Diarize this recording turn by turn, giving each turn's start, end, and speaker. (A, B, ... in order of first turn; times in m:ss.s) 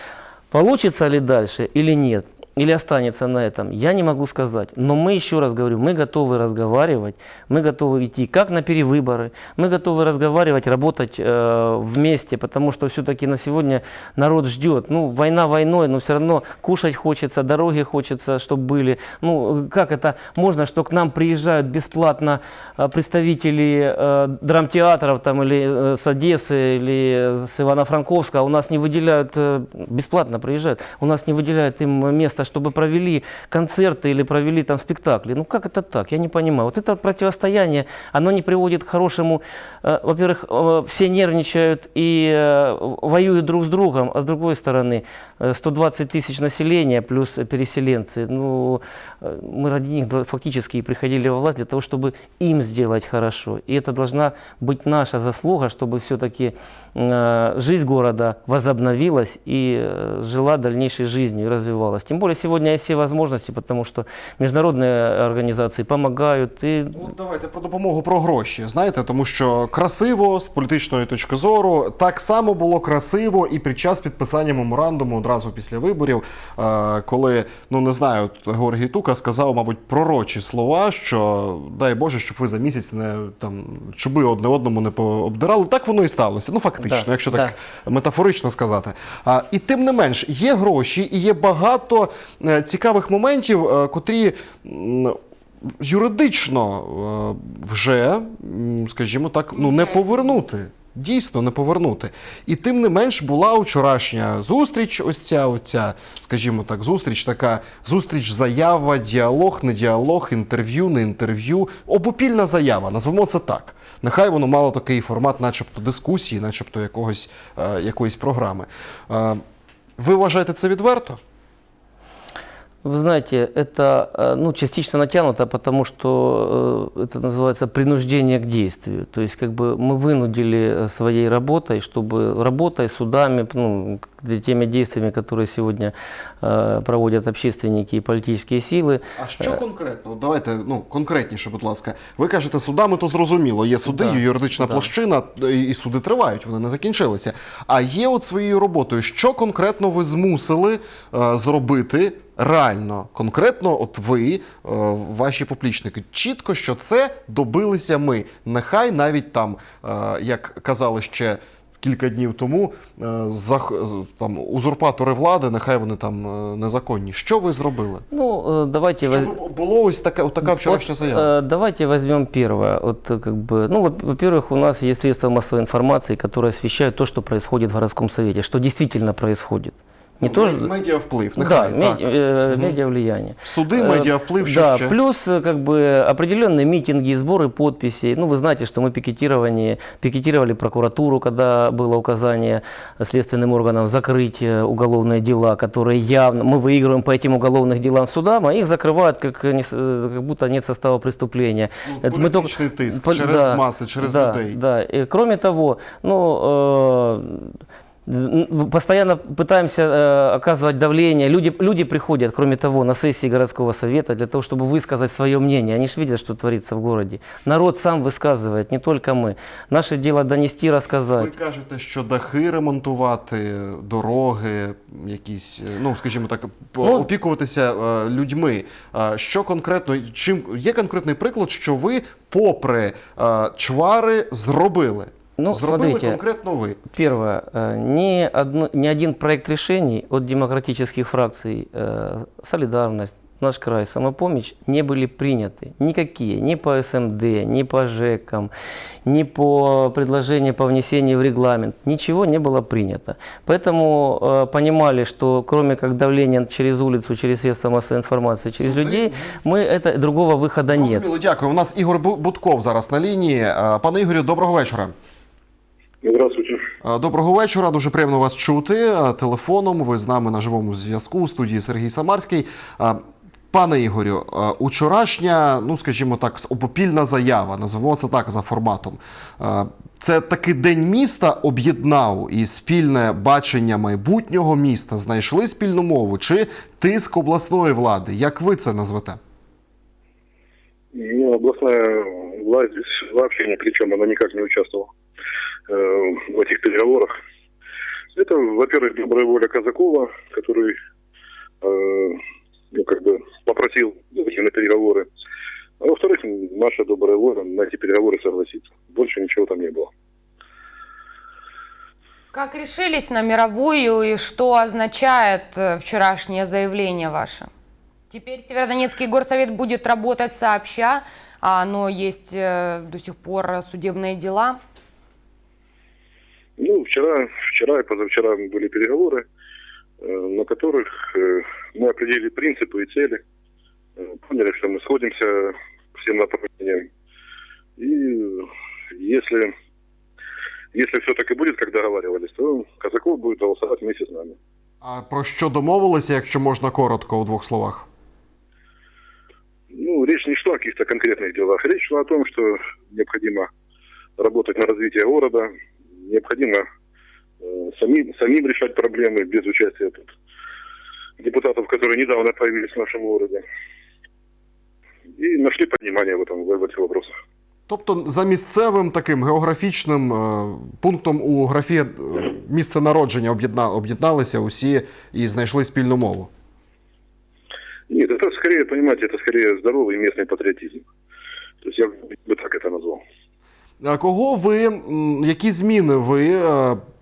0:00.5-1:07.1 A
1:06.9-1:59.4 B
1:26.8-1:27.5 A
2:00.0-2:01.2 B
2:02.8-2:19.6 A
2:19.2-2:48.0 B
2:23.9-2:24.9 A
2:48.1-2:49.3 A
2:49.0-2:51.3 B
2:50.4-3:00.7 A
3:00.2-3:02.8 B
3:01.4-3:41.3 A
3:03.4-3:05.0 B
3:21.8-3:24.6 B
3:41.2-3:56.8 B
3:55.4-3:56.2 A
3:56.9-4:08.5 A
4:09.0-4:21.1 A
4:18.6-4:19.4 B
4:20.7-4:24.9 B
4:26.0-4:26.6 C
4:26.8-4:33.0 B
4:33.5-4:49.2 B
4:50.9-4:54.9 C
4:55.7-4:57.1 C
4:58.1-5:00.8 C
5:01.6-5:02.2 C
5:02.7-5:05.1 C
5:05.8-5:09.9 C
5:12.3-5:17.5 D
5:18.1-5:24.6 D
5:26.6-5:29.2 C
5:30.0-5:33.2 C
5:34.0-5:36.9 C
5:37.8-5:39.5 C
5:40.7-5:44.4 C
5:44.8-5:47.9 B
5:49.7-5:53.5 C
5:54.2-5:56.6 C
5:57.4-6:00.1 C
6:01.2-6:03.4 C
6:05.2-6:07.1 C
6:07.7-6:16.3 B
6:17.9-6:20.8 C
6:21.6-6:23.0 C
6:23.8-6:26.8 B